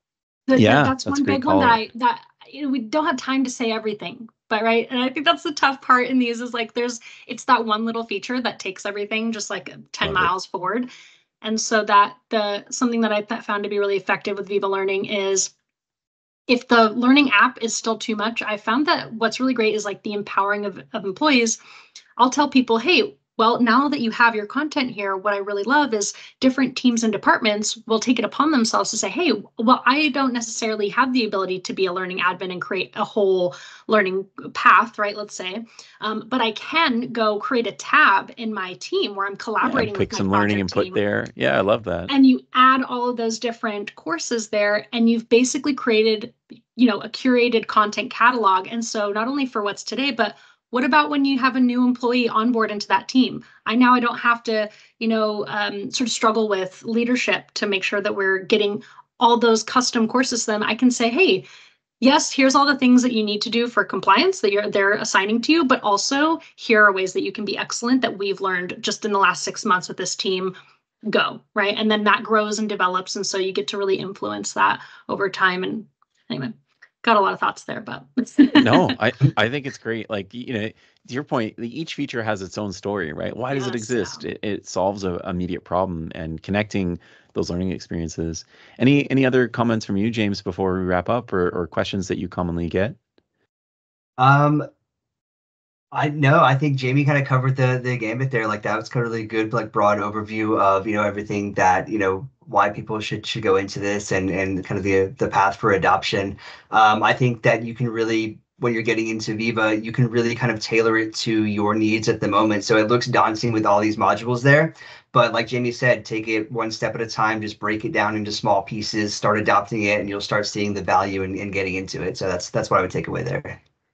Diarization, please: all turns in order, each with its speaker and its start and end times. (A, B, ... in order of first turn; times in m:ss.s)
0:00.5-0:10.9 A
0:00.6-0:01.8 B
0:10.0-0:10.3 B
0:11.4-0:15.5 A
0:16.5-0:21.6 A
0:22.2-0:41.0 A
0:39.6-0:42.1 B
0:42.1-1:01.5 A
1:02.0-1:10.6 A
1:11.1-1:18.9 A
1:18.6-1:33.0 B
1:23.5-1:24.3 A
1:34.2-1:34.7 C
1:35.9-2:03.6 C